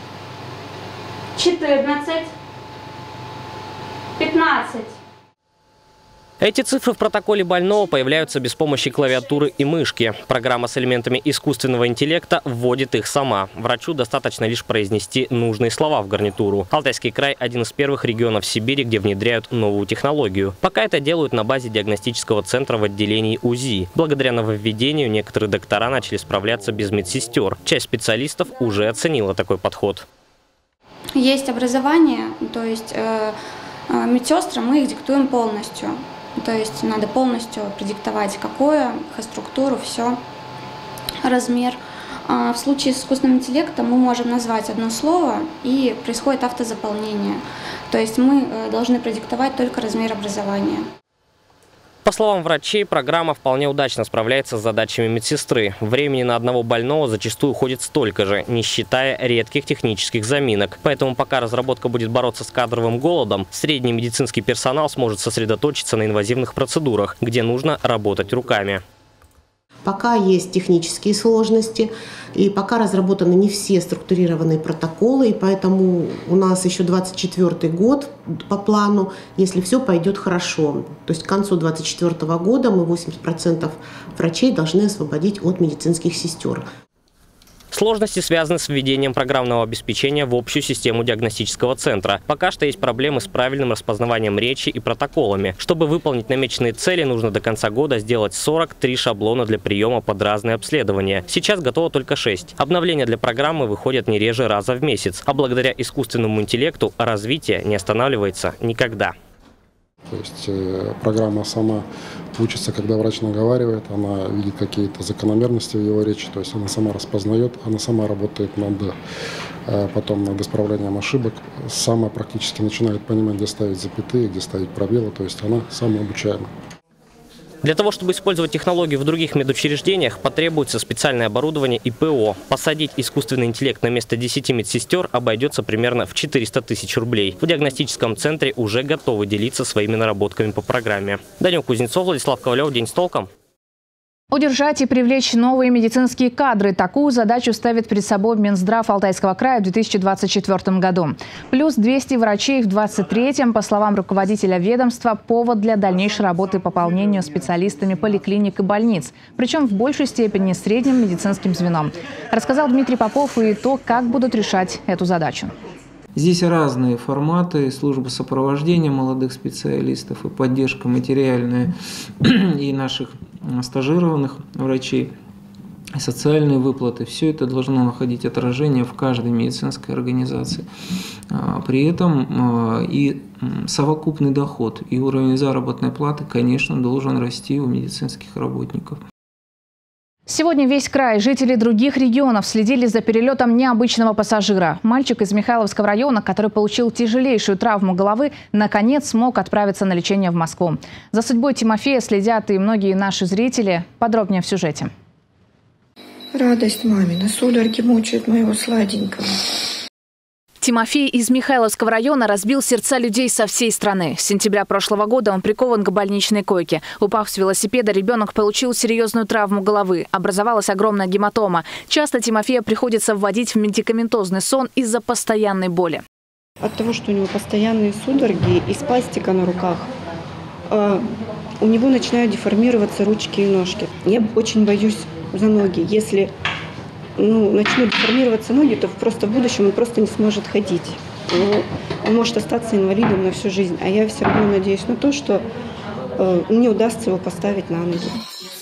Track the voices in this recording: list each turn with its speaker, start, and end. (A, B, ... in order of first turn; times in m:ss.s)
0:01.4-0:02.3 A
0:04.2-0:04.9 A
0:06.4-0:30.0 B
0:31.2-0:33.4 A
0:33.9-0:40.2 A
0:41.2-0:50.9 A
0:52.0-1:08.8 B
1:09.8-1:26.7 C
1:27.7-1:49.1 B
1:50.1-1:59.0 D
1:59.7-2:06.5 D
2:07.6-2:23.3 B
2:24.3-2:45.5 E
2:46.2-2:51.7 F
2:52.2-2:55.1 F
2:56.0-3:00.7 F
3:01.3-3:09.0 F
3:10.3-3:24.9 E
3:26.3-3:29.3 G
3:30.6-3:46.0 E
3:46.6-3:49.9 G
3:50.7-3:51.1 G
3:51.6-3:56.3 G
3:57.2-4:05.5 G
4:06.2-4:08.2 G